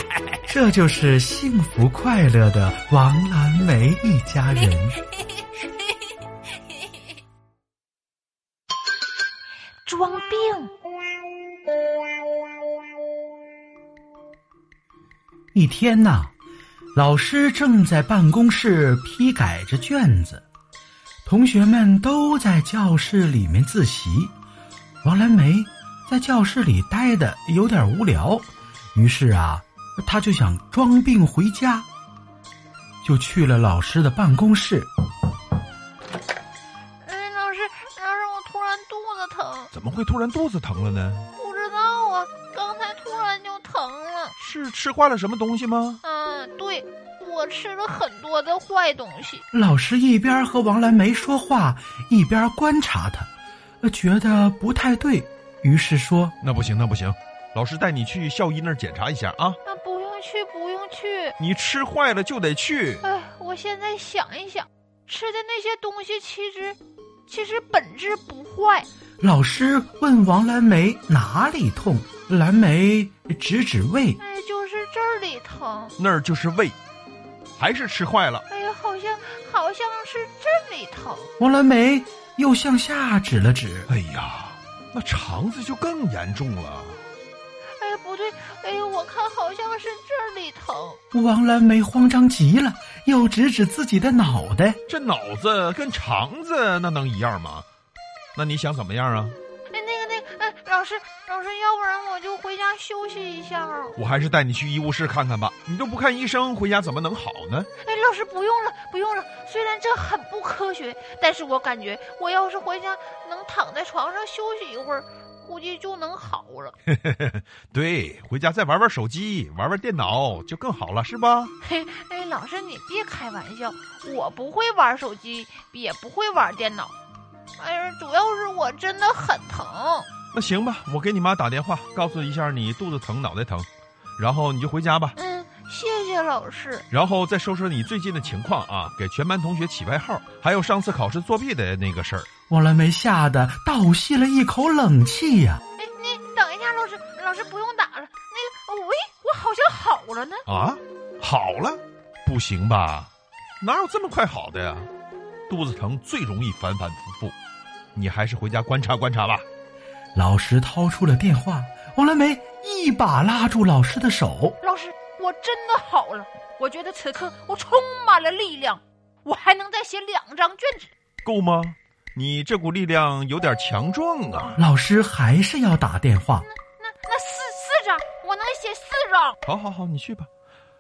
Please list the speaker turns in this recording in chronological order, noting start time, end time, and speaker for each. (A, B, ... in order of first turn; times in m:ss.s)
0:00.5-0:05.0 A
0:09.8-0:10.7 B
0:15.5-0:16.3 A
0:17.0-0:20.5 A
0:21.3-0:24.4 A
0:25.0-0:31.9 A
0:33.0-0:34.9 A
0:37.0-0:39.7 B
0:39.7-0:41.3 C
0:41.4-0:44.3 B
0:44.4-0:46.0 C
0:46.0-0:49.4 B
0:49.5-0:53.3 A
0:53.8-0:56.4 A
0:56.4-0:59.6 C
0:59.7-1:01.4 B
1:01.4-1:03.0 C
1:03.0-1:08.9 B
1:09.2-1:14.2 A
1:14.2-1:16.0 B
1:16.0-1:16.8 C
1:17.6-1:18.4 C
1:18.5-1:21.3 B
1:21.4-1:23.9 A
1:23.9-1:27.0 C
1:27.8-1:31.0 B
1:31.1-1:34.8 A
1:34.9-1:37.7 C
1:38.4-1:39.4 C
1:39.7-1:44.0 B
1:44.0-1:47.7 C
1:47.8-1:56.8 B
1:56.9-2:01.5 C
2:01.6-2:06.9 B
2:07.6-2:10.1 B
2:10.3-2:15.2 C
2:15.2-2:16.9 B
2:16.9-2:22.3 C
2:22.5-2:25.6 A
2:25.8-2:30.5 B
2:30.5-2:34.9 C
2:35.5-2:37.4 C
2:38.0-2:39.4 C
2:40.2-2:44.6 A
2:44.6-2:50.9 B
2:51.2-2:54.6 C
2:54.6-2:56.5 A
2:56.5-2:59.4 B
2:59.4-3:00.3 C